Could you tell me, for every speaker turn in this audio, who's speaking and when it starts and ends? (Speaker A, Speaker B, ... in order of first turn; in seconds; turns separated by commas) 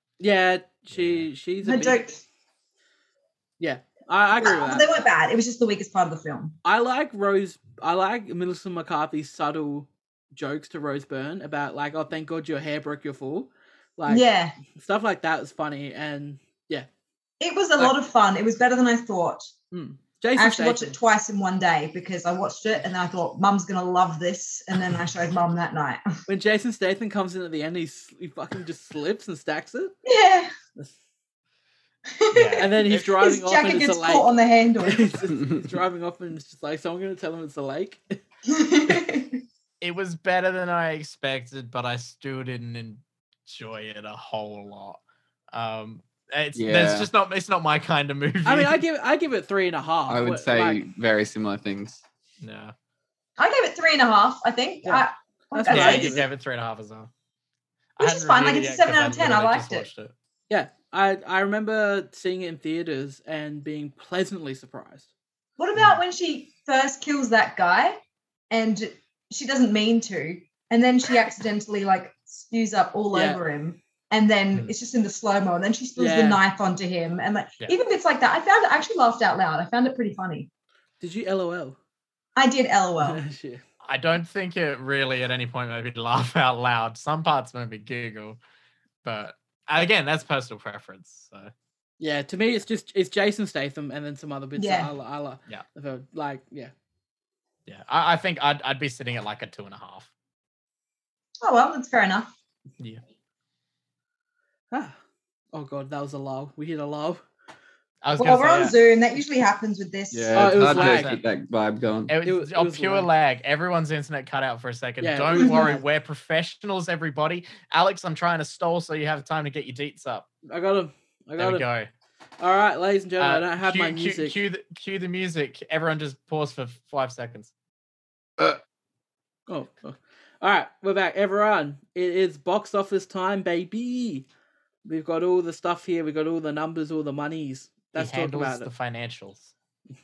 Speaker A: 0.2-2.0, Speaker B: 0.9-1.3, Speaker C: 1.6-2.2, Speaker A: 3.6-4.9, Speaker C: 4.4-6.5, Speaker A: 6.6-16.9, Speaker C: 14.1-14.6, Speaker C: 17.4-19.5, Speaker A: 19.7-20.9, Speaker C: 20.4-26.1, Speaker A: 26.3-29.9, Speaker C: 30.0-30.5, Speaker C: 32.1-35.3, Speaker B: 32.3-32.7, Speaker A: 32.6-34.3, Speaker A: 34.8-38.2, Speaker C: 38.5-39.4, Speaker B: 39.8-45.0, Speaker B: 45.5-48.8, Speaker D: 46.5-47.1, Speaker A: 48.4-50.8, Speaker D: 50.1-52.0, Speaker B: 52.4-52.7, Speaker C: 53.4-56.2, Speaker A: 54.8-56.3, Speaker B: 55.7-57.1, Speaker B: 58.0-60.1, Speaker C: 58.0-59.9, Speaker A: 60.5-65.1, Speaker C: 65.6-68.0, Speaker C: 68.5-80.5, Speaker A: 73.1-73.4, Speaker A: 76.0-76.4, Speaker A: 81.0-81.8, Speaker C: 82.3-83.2, Speaker A: 83.0-83.6, Speaker B: 83.8-88.4, Speaker B: 89.0-91.5, Speaker A: 92.0-96.7, Speaker C: 94.6-94.9, Speaker B: 97.7-100.1, Speaker C: 101.4-102.3, Speaker A: 104.7-105.0, Speaker A: 105.5-107.2, Speaker B: 108.0-108.7, Speaker C: 108.2-110.5, Speaker D: 110.1-112.1, Speaker A: 110.3-111.1, Speaker B: 110.7-111.2, Speaker B: 112.1-120.3, Speaker A: 112.2-113.1, Speaker A: 115.0-115.8, Speaker C: 115.3-115.7, Speaker A: 120.5-121.7, Speaker B: 121.4-121.9, Speaker A: 122.4-124.4, Speaker B: 123.2-127.5, Speaker A: 129.5-134.2, Speaker A: 134.8-138.7, Speaker B: 137.9-139.5